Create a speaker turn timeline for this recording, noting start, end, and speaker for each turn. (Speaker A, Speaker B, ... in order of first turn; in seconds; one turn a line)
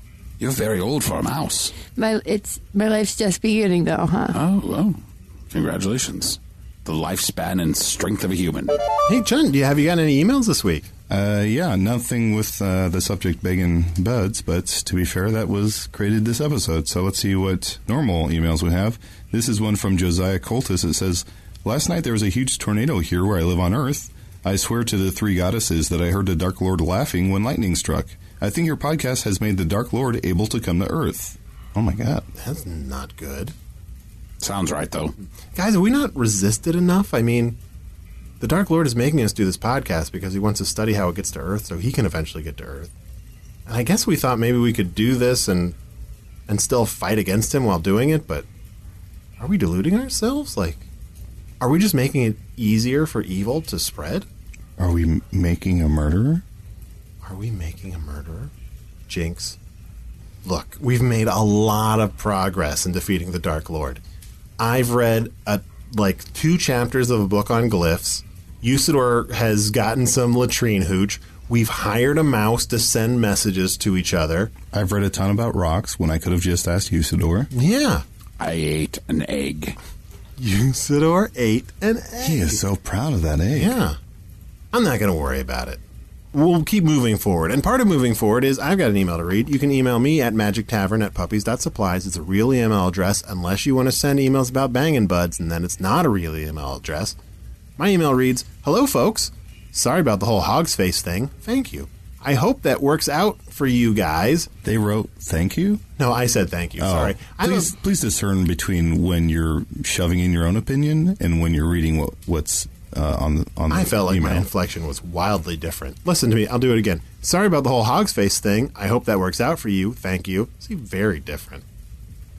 Speaker A: 0.4-1.7
Speaker B: 1.8-4.4
Speaker A: 4.3-5.0
Speaker A: 5.5-8.8
Speaker C: 9.1-10.9
Speaker D: 11.1-32.2
Speaker C: 32.3-33.5
Speaker A: 34.4-35.1
Speaker C: 35.5-37.6
Speaker C: 38.4-42.9
Speaker C: 43.6-45.8
Speaker C: 46.5-48.5
Speaker C: 49.4-50.8
Speaker C: 51.6-54.2
Speaker D: 54.8-56.4
Speaker C: 57.2-58.5
Speaker C: 59.1-59.6
Speaker C: 60.4-64.0
Speaker C: 64.6-74.5
Speaker D: 74.7-77.5
Speaker C: 77.5-78.0
Speaker A: 78.4-79.8
Speaker C: 80.4-82.6
Speaker D: 82.2-83.8
Speaker C: 83.5-84.0
Speaker C: 84.7-85.8
Speaker C: 86.3-97.2
Speaker C: 97.8-104.5
Speaker D: 104.6-105.8
Speaker C: 106.0-107.7
Speaker D: 106.8-114.5
Speaker C: 113.7-121.6